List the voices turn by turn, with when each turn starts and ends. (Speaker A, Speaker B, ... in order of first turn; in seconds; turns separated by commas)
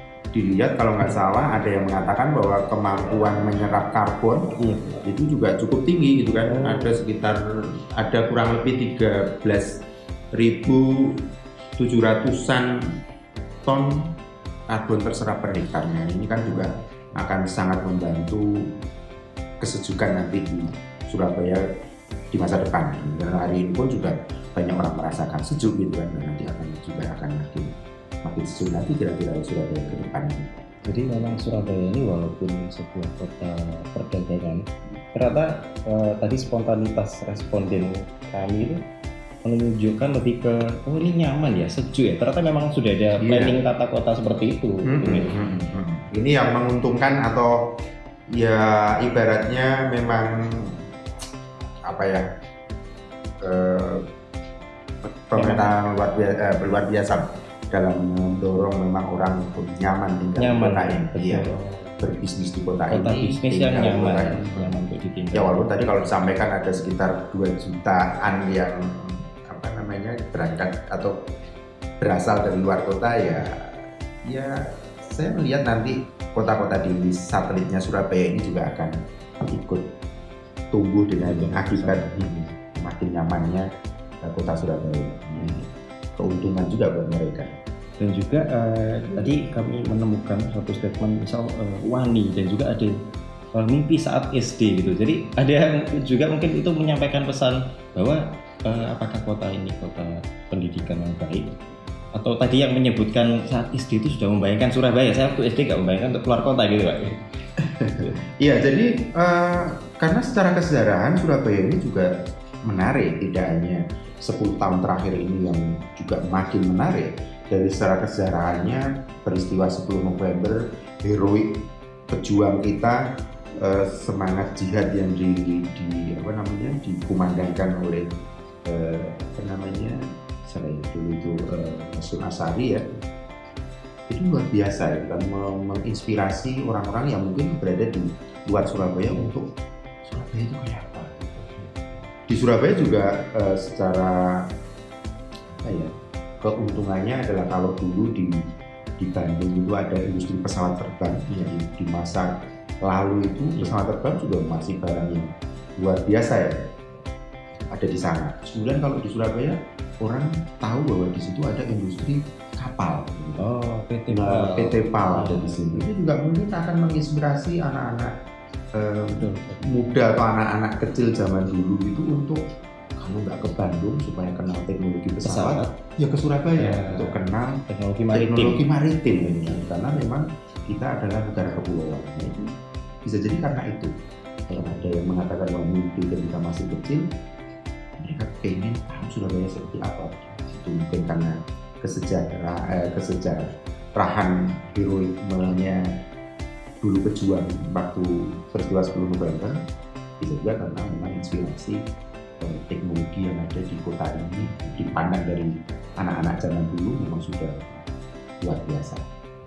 Speaker A: 0.3-7.4, Speaker B: 6.5-7.0, Speaker A: 7.9-12.7, Speaker A: 13.7-14.1, Speaker A: 14.7-18.7, Speaker A: 19.6-21.6, Speaker A: 22.3-30.6, Speaker B: 30.9-38.8, Speaker B: 39.4-45.4, Speaker A: 43.2-43.6, Speaker A: 44.9-47.7, Speaker A: 48.3-50.8, Speaker A: 51.9-52.2, Speaker A: 53.4-54.1, Speaker A: 55.0-61.5, Speaker B: 55.3-55.7, Speaker B: 60.4-61.9, Speaker A: 62.0-64.8, Speaker B: 62.9-66.1, Speaker A: 65.3-71.2, Speaker A: 72.0-79.0, Speaker A: 79.5-79.9, Speaker A: 80.7-83.7, Speaker B: 81.2-82.5, Speaker A: 84.2-87.5, Speaker B: 88.0-92.9, Speaker B: 93.5-101.6, Speaker B: 102.2-107.2, Speaker A: 107.6-112.1, Speaker A: 112.7-123.0, Speaker A: 123.6-128.1, Speaker A: 128.7-133.0, Speaker A: 134.1-139.5, Speaker A: 140.1-144.5, Speaker A: 145.6-148.4, Speaker A: 149.0-156.6, Speaker A: 157.7-163.5, Speaker B: 163.4-165.9, Speaker A: 164.1-168.1, Speaker A: 168.8-172.4, Speaker B: 169.2-169.8, Speaker A: 173.0-177.6, Speaker B: 175.2-175.7, Speaker B: 176.6-180.0, Speaker A: 178.1-182.5, Speaker A: 183.1-183.9, Speaker A: 184.5-187.1, Speaker A: 188.0-195.9, Speaker A: 196.8-199.6, Speaker A: 200.2-201.8, Speaker A: 202.4-207.9, Speaker A: 208.4-209.1